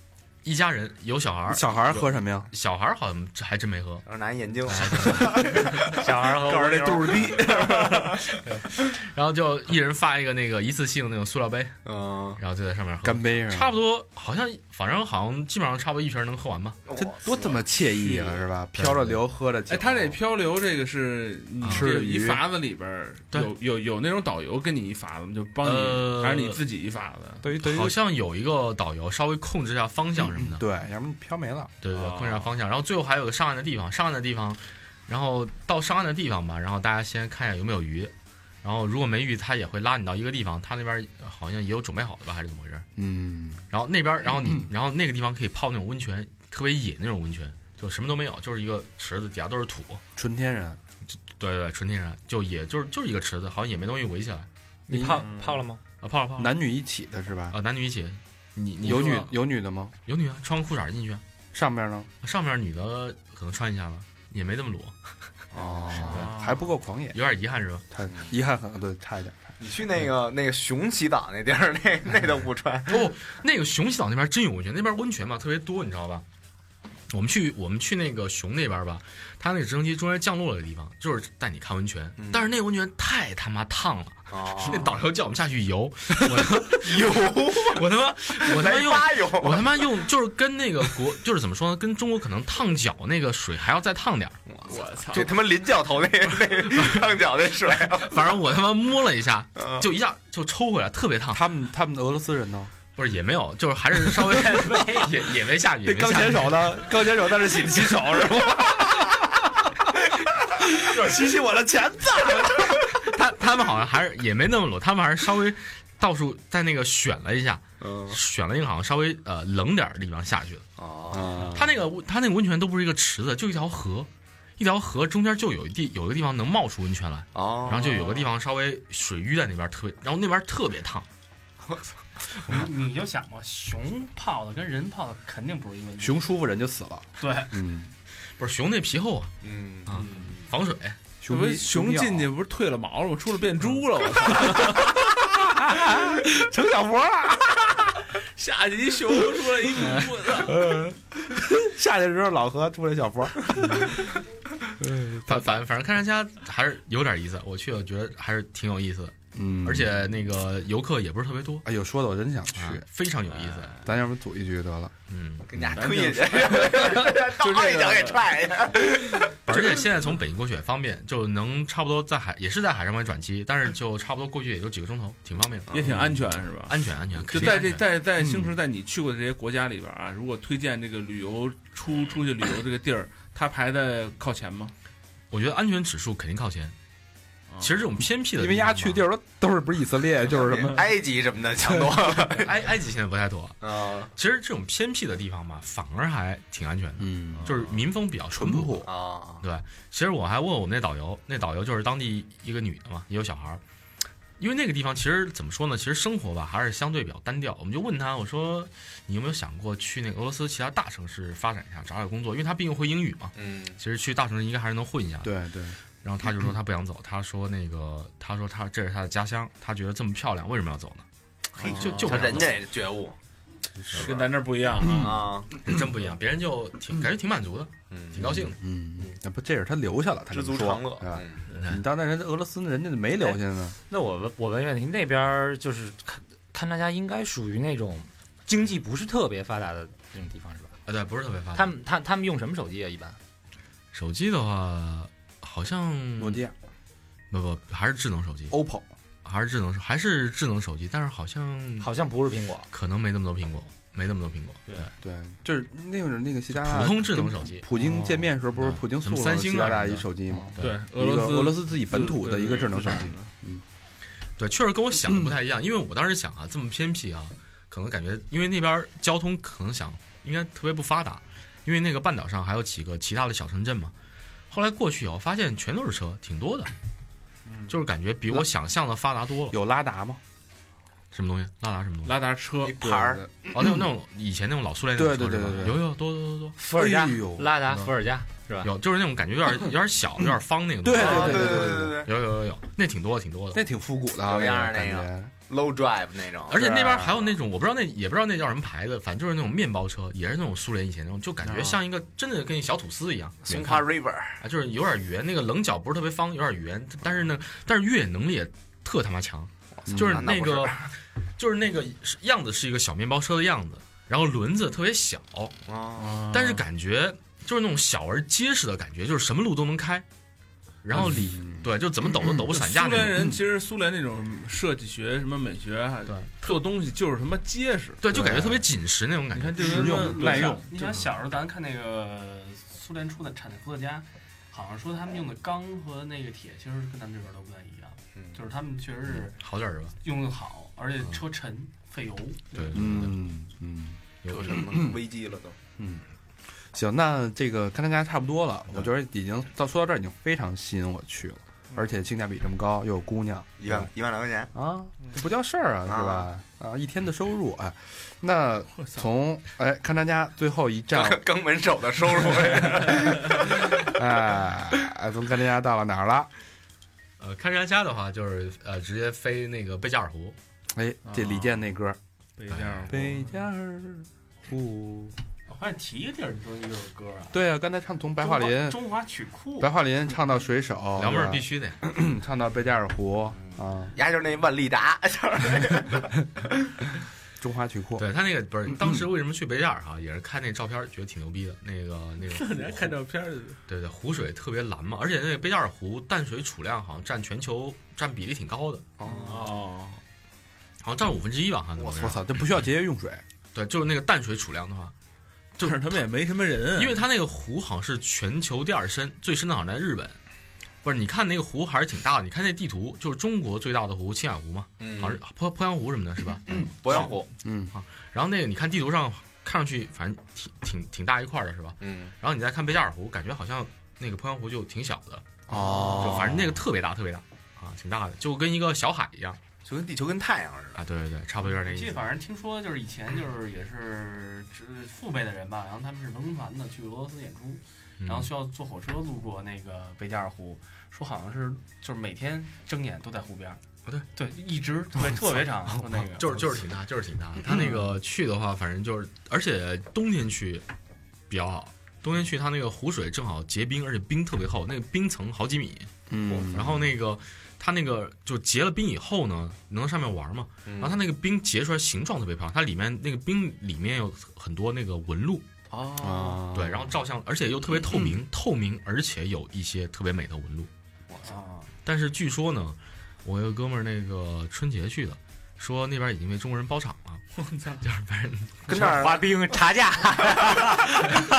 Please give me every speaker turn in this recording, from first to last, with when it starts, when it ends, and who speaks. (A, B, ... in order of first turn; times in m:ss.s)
0:00.4-0:04.0 A
0:01.5-0:02.5 B
0:04.0-0:06.1 C
0:04.6-0:05.5 A
0:05.9-0:07.3 D
0:06.4-0:08.2 E
0:08.3-0:11.8 A
0:11.8-0:12.4 C
0:12.4-0:16.8 A
0:13.0-0:13.7 B
0:16.9-0:17.6 C
0:16.9-0:20.2 B
0:18.0-0:18.3 E
0:18.8-0:19.2 A
0:19.7-0:27.4 E
0:21.6-0:21.9 A
0:21.6-0:22.4 B
0:25.6-0:26.6 A
0:27.4-0:28.0 B
0:27.6-0:30.6 A
0:30.2-0:31.7 B
0:31.8-0:38.1 A
0:31.9-0:32.5 E
0:38.6-0:42.9 A
0:43.0-0:43.6 B
0:43.7-0:50.0 A
0:44.4-0:44.6 B
0:50.2-0:50.8 B
0:51.1-0:54.5 A
0:54.9-0:55.8 D
0:54.9-0:55.3 B
0:56.0-0:56.5 A
0:56.4-0:57.6 B
0:57.5-0:59.4 A
0:58.8-0:59.9 B
1:00.0-1:01.2 A
1:01.5-1:02.1 B
1:02.2-1:05.0 A
1:05.5-1:06.4 C
1:05.6-1:07.2 B
1:06.1-1:06.6 E
1:07.1-1:07.9 A
1:07.9-1:09.5 B
1:09.6-1:13.1 C
1:12.9-1:16.2 A
1:17.1-1:34.4 A
1:22.2-1:22.5 C
1:24.3-1:25.0 C
1:26.7-1:29.9 C
1:34.5-1:38.3 C
1:34.6-1:35.4 E
1:37.9-1:41.5 A
1:39.6-1:39.8 C
1:41.3-1:42.7 B
1:43.0-1:46.9 A
1:44.3-1:44.9 B
1:45.8-1:49.6 B
1:50.5-1:52.8 B
1:52.7-2:00.6 A
1:57.8-1:58.2 C
2:00.8-2:01.5 C
2:01.1-2:01.8 B
2:01.5-2:11.1 A
2:07.3-2:08.3 C
2:12.5-2:16.2 F
2:16.0-2:17.9 B
2:17.2-2:17.6 F
2:18.4-2:21.0 A
2:19.4-2:20.4 C
2:21.2-2:22.3 B
2:21.3-2:25.0 E
2:24.4-2:28.0 B
2:28.1-2:30.7 E
2:30.0-2:34.1 B
2:34.8-2:35.6 B
2:35.2-2:41.6 A
2:39.3-2:40.1 B
2:41.6-2:42.8 B
2:42.5-2:43.8 A
2:43.4-2:43.7 E
2:43.8-2:44.9 B
2:45.1-2:45.5 A
2:45.5-2:49.3 C
2:45.7-2:48.3 E
2:49.4-2:55.7 A
2:55.7-2:56.0 C
2:55.7-3:04.7 E
2:56.7-2:57.8 A
2:58.2-2:58.5 B
3:05.3-3:06.7 A
3:07.6-3:09.0 A
3:08.4-3:10.9 B
3:10.3-3:12.5 C
3:11.6-3:12.0 B
3:12.3-3:18.9 A
3:13.6-3:14.1 C
3:17.0-3:17.5 B
3:17.4-3:17.8 E
3:18.3-3:18.9 B
3:18.8-3:19.4 C
3:19.4-3:23.6 A
3:24.4-3:35.3 A
3:33.4-3:33.8 C
3:35.2-3:35.8 B
3:36.0-3:41.0 A
3:41.6-3:43.2 C
3:41.6-3:42.6 A
3:41.7-3:42.3 B
3:43.9-3:45.2 E
3:44.8-3:45.7 B
3:44.8-3:45.5 C
3:45.6-3:48.6 A
3:47.9-3:48.3 C
3:48.1-3:53.7 B
3:50.3-3:51.4 C
3:53.2-4:00.7 D
4:00.9-4:01.8 A
4:01.5-4:03.2 D
4:03.9-4:06.4 A
4:06.2-4:06.5 B
4:07.3-4:08.6 A
4:08.5-4:08.9 B
4:09.2-4:11.9 A
4:11.8-4:12.7 D
4:12.7-4:14.9 A
4:15.0-4:23.6 B
4:16.5-4:17.7 A
4:18.5-4:20.0 A
4:20.6-4:23.2 E
4:24.4-4:33.9 A
4:25.1-4:25.3 B
4:34.5-4:36.7 A
4:37.7-4:39.6 A
4:39.5-4:40.2 B
4:41.1-4:42.2 A
4:42.0-4:42.8 E
4:42.6-4:43.2 C
4:42.8-4:43.8 B
4:43.5-4:46.6 A
4:44.9-4:45.8 B
4:46.6-4:48.7 D
4:46.7-4:47.7 B
4:48.6-4:53.6 A
4:50.8-4:52.0 B
4:50.9-4:52.1 C
4:53.5-4:55.3 B
4:54.2-4:56.6 C
4:56.5-5:10.9 A
4:56.5-4:57.3 B
5:01.4-5:01.8 B
5:03.5-5:04.4 C
5:09.8-5:10.9 C
5:09.9-5:10.2 B
5:11.4-5:15.5 A
5:15.6-5:16.3 C
5:16.0-5:16.6 E
5:16.3-5:20.0 A
5:20.8-5:23.2 A
5:21.0-5:21.7 B
5:22.5-5:28.0 E
5:26.1-5:26.3 A
5:28.0-5:30.1 A
5:28.1-5:28.6 B
5:29.3-5:31.0 E
5:29.6-5:30.6 B
5:30.2-5:39.4 F
5:39.4-5:39.9 A
5:40.0-5:42.7 F
5:42.5-5:43.3 A
5:42.7-5:45.0 B
5:44.2-5:44.8 A
5:44.3-5:45.6 C
5:45.8-5:46.0 B
5:46.7-5:53.9 B
5:53.6-5:54.5 C
5:54.5-6:01.2 B
5:55.9-5:56.3 C
6:00.9-6:03.9 C
6:02.8-6:06.3 B
6:07.2-6:10.4 A
6:10.7-6:12.0 B
6:11.0-6:11.6 E
6:12.4-6:13.2 E
6:12.5-6:12.9 A
6:12.9-6:15.1 B
6:15.5-6:17.4 F
6:17.3-6:18.8 B
6:18.2-6:19.7 F
6:19.6-6:23.9 B
6:21.0-6:21.8 A
6:23.9-6:26.1 C
6:27.4-6:28.1 B
6:28.0-6:32.9 A
6:28.7-6:29.0 B
6:32.2-6:33.6 E
6:33.7-6:38.9 A
6:39.0-6:39.6 C
6:39.1-6:40.0 E
6:40.8-6:42.2 A
6:41.8-6:42.1 C
6:41.9-6:43.2 B
6:43.5-6:44.9 A
6:45.6-6:46.0 A
6:45.6-6:47.0 E
6:46.7-6:50.2 A
6:50.8-6:57.1 A
6:54.8-6:55.2 C
6:56.5-6:57.3 C
6:57.4-6:57.7 B
6:57.7-7:09.4 A
7:01.8-7:02.1 C
7:05.5-7:06.5 B
7:05.5-7:06.4 C
7:09.6-7:10.8 C
7:10.8-7:12.0 A
7:11.5-7:23.6 F
7:18.0-7:18.3 A
7:24.1-7:26.5 F
7:25.7-7:30.6 A
7:27.4-7:27.9 B
7:31.3-7:35.9 A
7:36.1-7:36.9 B
7:36.3-7:36.6 C
7:36.5-7:45.4 A
7:40.7-7:41.0 C
7:45.7-7:46.5 C
7:46.0-7:47.0 B
7:46.5-7:50.7 A
7:51.1-7:51.4 C
7:51.2-7:51.6 F
7:51.8-7:57.2 A
7:57.4-7:57.8 E
7:57.8-7:58.9 A
7:58.7-7:59.6 C
7:58.7-8:01.2 D
8:00.2-8:00.5 C